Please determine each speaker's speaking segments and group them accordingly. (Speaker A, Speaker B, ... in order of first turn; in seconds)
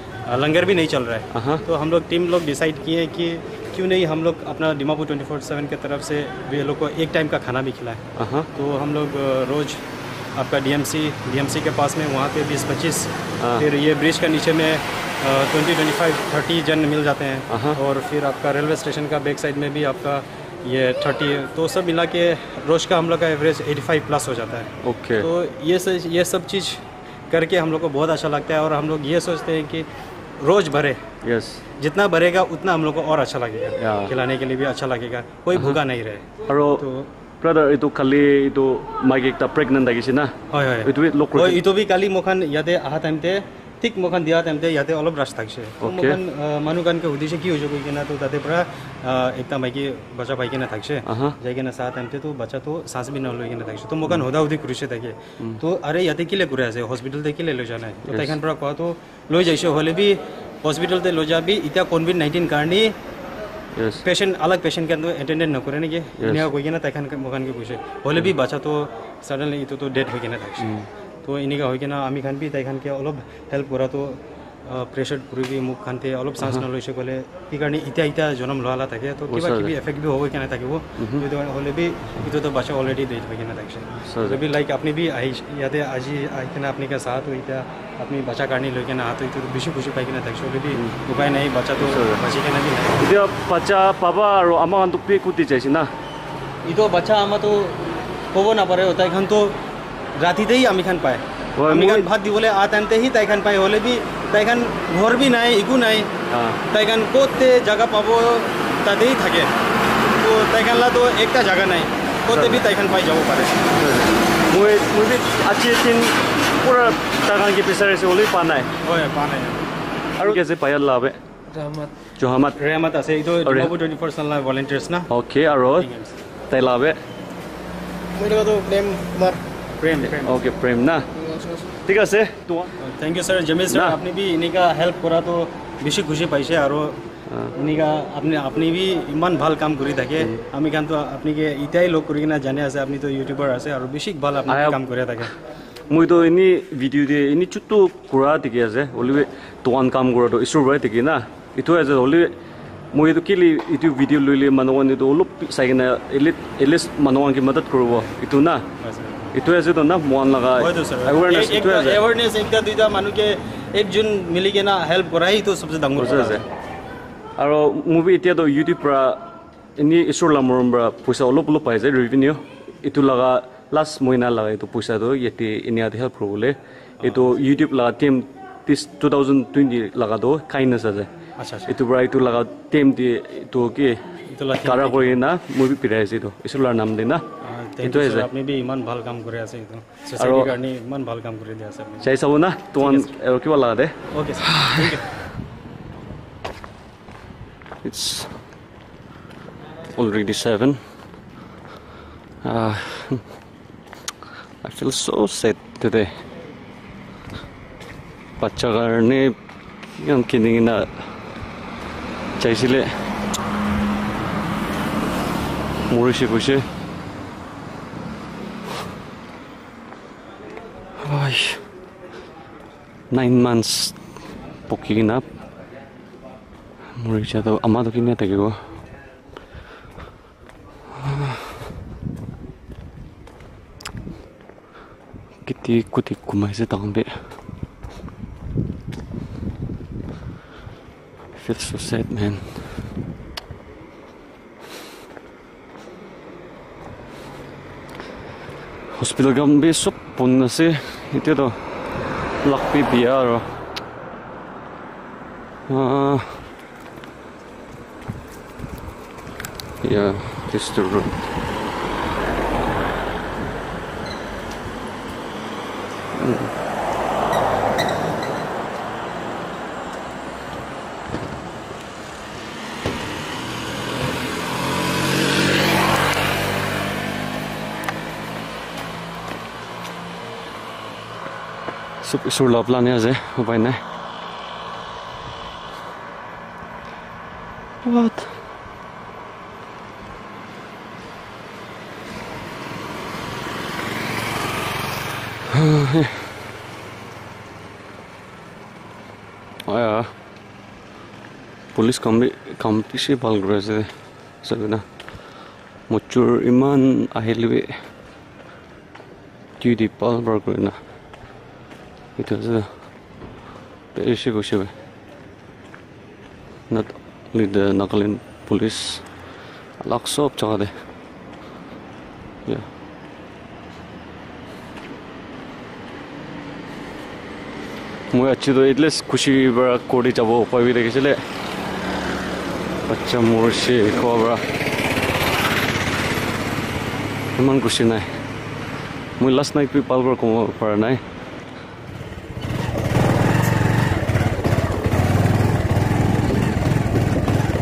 Speaker A: 0.3-8.0, 8.5-9.8, 10.3-29.9, 30.4-31.0, 31.8-37.1, 40.5-62.9, 64.0-70.7, 71.2-93.1, 96.6-99.6, 100.2-106.1, 106.7-113.7, 118.8-120.3, 122.6-125.1, 125.7-126.2, 129.8-130.4, 132.8-137.0, 137.5-145.3, 158.8-159.3, 160.6-166.4, 177.0-177.3, 181.4-181.7, 184.3-185.2, 187.4-192.1, 192.8-193.1, 194.1-195.1
Speaker B: 1.3-1.6, 8.2-8.5, 17.5-17.8, 24.8-25.3, 31.2-31.6, 33.8-34.1, 35.5-35.8, 36.5-36.8, 37.4-40.3, 40.8-41.6, 45.8-46.2, 51.0-51.4, 58.0-58.4, 63.7-64.0, 66.2-66.5, 70.6-70.9, 76.4-76.6, 79.3-79.7, 81.0-81.2, 84.0-84.4, 90.7-91.0, 91.8-92.2, 93.0-95.9, 101.6-102.1, 106.3-106.6, 112.3-112.6, 113.7-118.7, 120.2-121.2, 122.2-122.6, 123.4-123.7, 125.1-125.9, 126.5-127.0, 130.1-131.1, 131.8-132.7, 133.7-134.0, 144.5-144.8, 145.9-152.3, 152.9-158.6, 159.3-162.0, 165.9-166.4, 167.4-169.2, 169.8-181.1, 181.7-184.0, 184.6-187.2, 187.8-188.3, 190.2-190.5, 192.0-193.9, 194.5-195.0, 197.8-198.3, 199.9-200.8, 202.4-203.2, 204.6-206.1, 208.4-209.3, 210.0-210.9, 212.4-212.9, 215.9-216.6, 221.0-221.6, 223.1-224.0, 224.7-225.2, 227.0-228.6, 231.0-231.3, 235.4-237.1, 241.3-242.6, 248.9-251.6, 252.4-253.4, 255.7-256.4, 259.8-261.3, 266.1-266.5, 282.0-283.8, 287.8-288.3, 295.5-296.3, 299.7-300.1, 301.7-303.9, 304.4-304.8, 305.9-307.7, 309.6-310.8, 312.2-312.7, 313.9-314.7, 316.7-319.1, 319.8-320.7, 328.1-331.2, 332.9-334.4, 337.4-338.1, 339.2-341.0
Speaker C: 121.5-121.9, 128.2-129.4, 131.2-131.7